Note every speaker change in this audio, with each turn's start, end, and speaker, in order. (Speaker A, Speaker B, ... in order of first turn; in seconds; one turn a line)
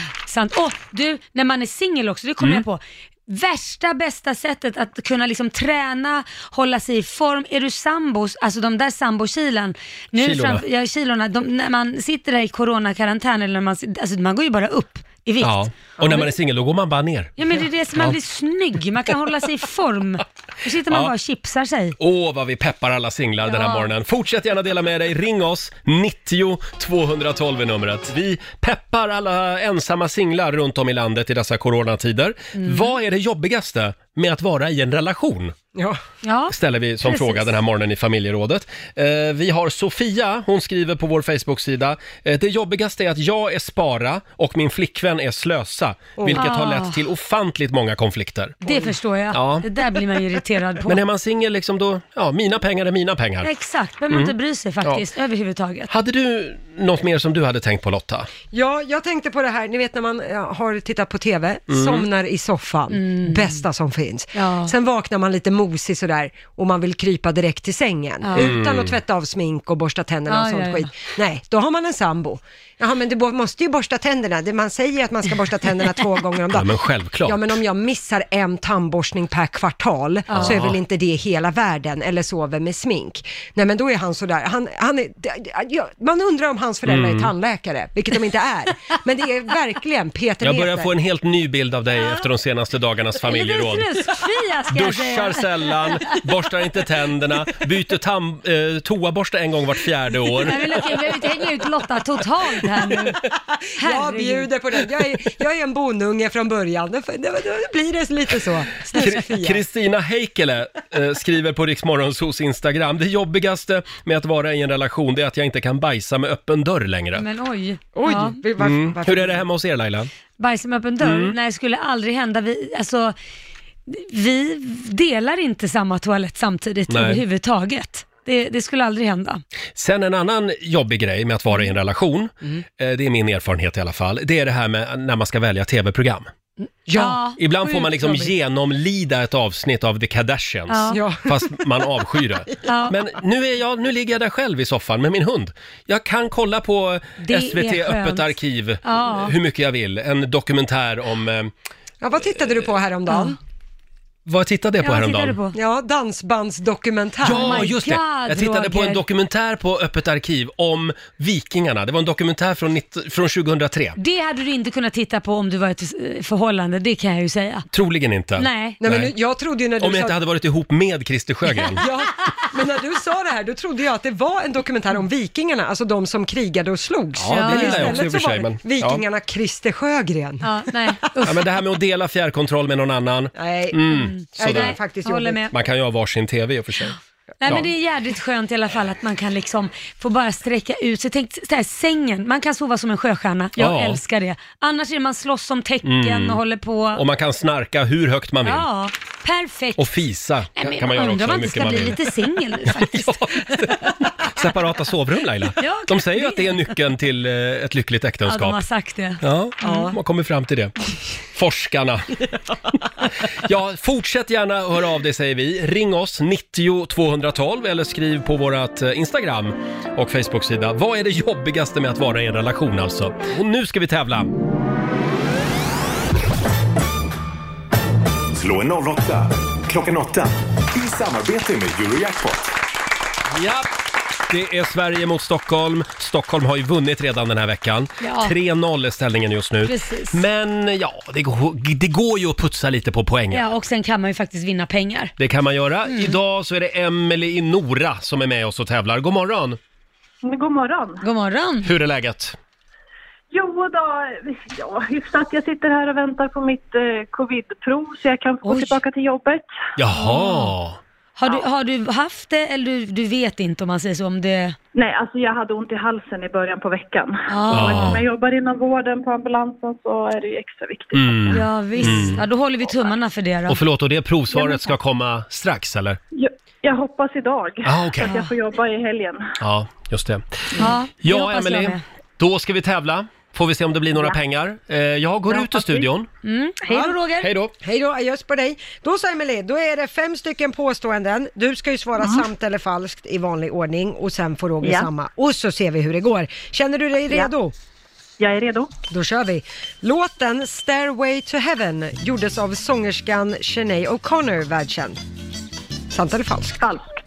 Speaker A: 0.2-16.3
Speaker B: 10.2-10.6
Speaker B: 15.4-17.3
Speaker A: 17.4-22.0
Speaker B: 22.0-35.5
Speaker A: 23.5-23.9
Speaker A: 32.6-32.9
Speaker A: 36.2-37.5
Speaker B: 36.5-48.6
Speaker C: 46.2-46.5
Speaker A: 46.4-47.0
Speaker A: 48.6-51.0
Speaker C: 48.6-48.9
Speaker B: 49.3-49.7
Speaker B: 50.9-53.5
Speaker A: 53.4-55.9
Speaker B: 54.1-55.0
Speaker B: 55.9-58.3
Speaker C: 58.5-76.7
Speaker B: 61.7-62.0
Speaker A: 62.9-63.6
Speaker A: 64.3-64.7
Speaker A: 68.2-68.6
Speaker B: 68.4-69.0
Speaker A: 70.3-70.9
Speaker B: 76.5-77.5
Speaker C: 77.2-90.9
Speaker A: 80.3-80.6
Speaker B: 80.3-80.8
Speaker B: 86.9-87.3
Speaker B: 90.4-93.9
Speaker A: 93.3-96.2
Speaker B: 94.7-100.8
Speaker A: 100.4-103.3
Speaker A: 103.8-104.5
Speaker C: 103.8-109.6
Speaker B: 108.9-117.2
Speaker A: 117.2-118.4
Speaker C: 118.0-119.4
Speaker B: 118.6-120.1
Speaker A: 120.4-123.2
Speaker B: 121.0-121.3
Speaker A: 123.9-129.4
Speaker B: 126.9-127.2
Speaker B: 129.8-136.3
Speaker C: 136.9-137.2
Speaker A: 136.9-138.3
Speaker B: 137.4-151.5
Speaker A: 140.7-141.0
Speaker C: 140.9-141.5
Speaker A: 142.7-142.9
Speaker A: 147.2-149.3
Speaker C: 152.0-153.4
Speaker B: 154.3-155.4
Speaker A: 154.8-155.6
Speaker C: 155.6-157.7
Speaker B: 157.2-164.0
Speaker A: 157.4-159.0
Speaker A: 164.0-167.7
Speaker B: 167.7-169.1
Speaker A: 168.4-168.8
Speaker C: 168.8-170.2
Speaker B: 169.8-171.8
Speaker C: 171.8-180.5
Speaker B: 177.2-179.0
Speaker A: 177.3-178.0
Speaker A: 180.4-181.4
Speaker B: 181.2-184.8
Speaker C: 183.3-185.5
Speaker A: 183.9-185.5
Speaker B: 185.5-187.7
Speaker A: 187.4-197.0
Speaker B: 193.6-194.0
Speaker B: 195.8-196.4
Speaker B: 196.9-198.7
Speaker A: 198.4-199.9
Speaker B: 199.8-202.1
Speaker A: 200.6-203.9
Speaker B: 202.7-208.6
Speaker A: 205.6-206.8
Speaker A: 208.3-209.9
Speaker B: 209.2-210.7
Speaker B: 211.3-212.1
Speaker B: 213.3-224.3
Speaker D: 228.3-232.4
Speaker B: 233.3-233.7
Speaker B: 234.3-243.4
Speaker A: 238.0-238.3
Speaker A: 239.6-240.2
Speaker A: 243.3-245.1
Speaker B: 245.2-249.6
Speaker A: 245.9-246.2
Speaker E: 250.2-251.0
Speaker A: 251.0-251.7
Speaker B: 251.6-252.4
Speaker E: 253.3-259.5
Speaker A: 258.4-258.8
Speaker B: 259.8-260.8
Speaker A: 260.0-260.5
Speaker A: 261.2-264.6
Speaker E: 264.7-271.9
Speaker A: 267.3-268.0
Speaker B: 267.5-268.0
Speaker B: 270.9-272.2
Speaker A: 271.3-273.6
Speaker B: 273.5-276.0
Speaker E: 276.1-279.4
Speaker B: 277.6-278.1
Speaker A: 278.1-278.3
Speaker B: 279.4-280.4
Speaker A: 280.6-281.8
Speaker B: 281.0-286.1
Speaker A: 286.2-287.3
Speaker C: 286.7-287.0
Speaker B: 287.2-287.5
Speaker C: 287.6-297.5
Speaker E: 298.2-298.7
Speaker C: 298.9-305.0
Speaker C: 305.9-306.6